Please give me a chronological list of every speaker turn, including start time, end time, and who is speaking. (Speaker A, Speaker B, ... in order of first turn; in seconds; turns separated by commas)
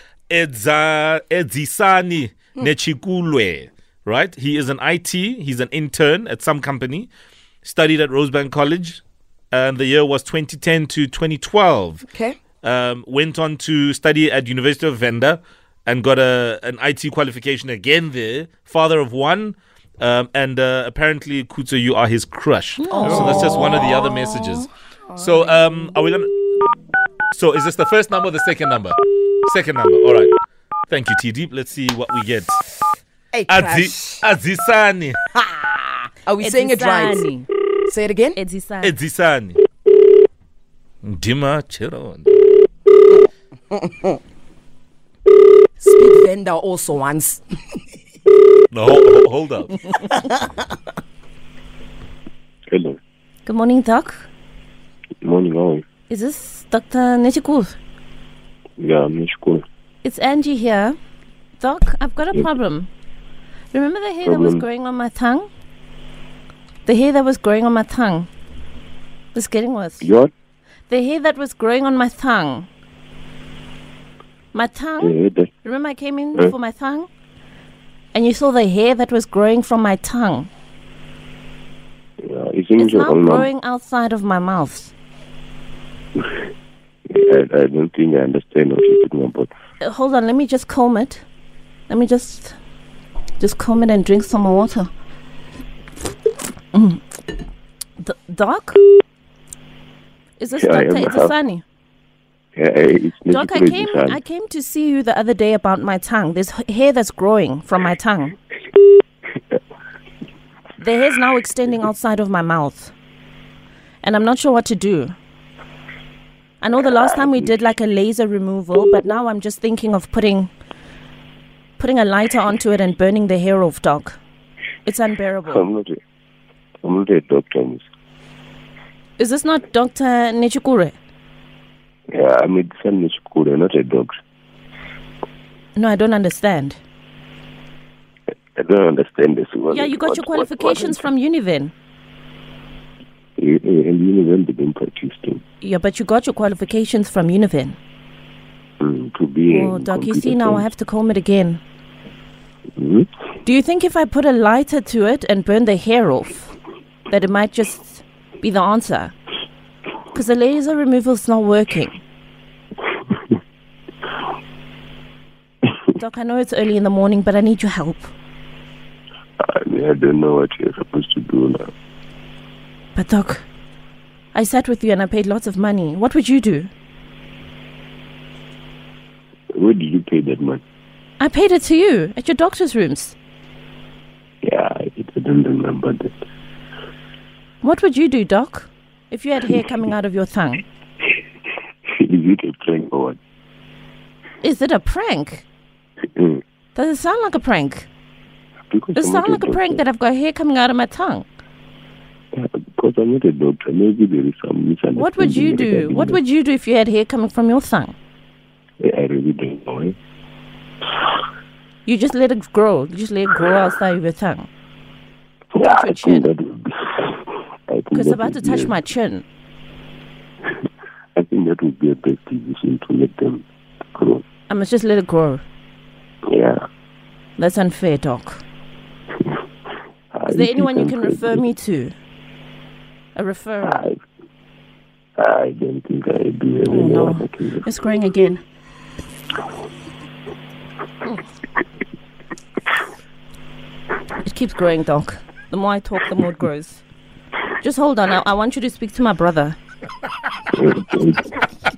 Speaker A: 0.3-7.1, Speaker A: 7.6-9.0, Speaker A: 9.5-12.0, Speaker B: 12.1-12.4, Speaker A: 12.6-26.3, Speaker C: 22.9-23.7, Speaker B: 23.0-24.6, Speaker A: 27.3-30.3, Speaker A: 30.9-32.6, Speaker B: 33.3-34.2, Speaker A: 33.5-35.2, Speaker B: 35.3-37.2, Speaker C: 36.4-37.5, Speaker B: 37.9-38.4, Speaker C: 38.4-38.9, Speaker A: 38.8-39.6, Speaker A: 41.0-42.4, Speaker B: 43.7-44.2, Speaker B: 45.8-47.8, Speaker A: 48.7-49.9, Speaker B: 49.9-50.5, Speaker D: 52.7-53.0, Speaker C: 53.4-54.2, Speaker D: 55.2-55.8, Speaker C: 56.1-57.7, Speaker D: 58.8-59.6, Speaker C: 60.0-61.0, Speaker C: 61.6-62.9, Speaker C: 63.7-65.5, Speaker D: 64.2-64.6, Speaker C: 66.8-68.3, Speaker C: 69.3-70.1, Speaker D: 70.0-70.3, Speaker C: 70.9-72.7, Speaker C: 74.5-77.1, Speaker D: 75.0-75.5, Speaker C: 78.1-80.5, Speaker D: 82.2-83.5, Speaker C: 82.8-84.9, Speaker D: 87.1-89.5, Speaker C: 89.8-91.2, Speaker C: 91.9-92.5, Speaker C: 93.4-94.9, Speaker C: 96.7-97.0, Speaker C: 98.0-98.8, Speaker C: 100.4-101.6, Speaker D: 100.6-101.3, Speaker D: 102.5-104.2, Speaker C: 103.3-108.3, Speaker C: 110.8-112.9, Speaker C: 114.0-115.2, Speaker C: 116.6-120.5, Speaker C: 121.8-124.2, Speaker C: 124.8-125.7, Speaker D: 125.5-126.0, Speaker D: 126.8-127.8, Speaker C: 129.2-130.9, Speaker D: 132.1-134.1, Speaker C: 135.8-136.8, Speaker D: 138.6-141.1, Speaker C: 139.7-141.7, Speaker D: 143.4-145.4, Speaker C: 145.6-147.8, Speaker D: 148.8-150.6, Speaker C: 149.5-151.6, Speaker D: 152.8-153.1, Speaker C: 153.4-156.5, Speaker C: 157.1-159.1, Speaker C: 160.1-162.0, Speaker C: 165.9-168.1, Speaker D: 169.4-171.7, Speaker C: 172.9-173.4, Speaker C: 174.3-176.7, Speaker D: 179.5-180.6, Speaker C: 181.2-183.2, Speaker D: 184.4-186.1, Speaker C: 187.6-190.6, Speaker D: 192.0-193.2, Speaker C: 194.4-195.4, Speaker C: 196.7-197.9, Speaker D: 198.7-199.8, Speaker C: 198.9-201.3, Speaker D: 202.3-206.2, Speaker C: 204.9-207.9, Speaker D: 208.8-209.9, Speaker C: 211.8-214.5, Speaker D: 215.5-218.8, Speaker C: 215.6-216.3, Speaker C: 217.9-219.2, Speaker D: 221.2-223.4, Speaker D: 223.9-224.2, Speaker C: 224.5-225.4, Speaker D: 226.3-226.6, Speaker C: 227.4-228.4, Speaker D: 230.1-231.4, Speaker C: 230.3-231.9, Speaker C: 233.1-233.9, Speaker D: 233.6-234.0, Speaker D: 235.2-237.7, Speaker C: 236.6-238.4, Speaker C: 244.2-246.8, Speaker C: 247.6-249.6, Speaker D: 250.5-251.3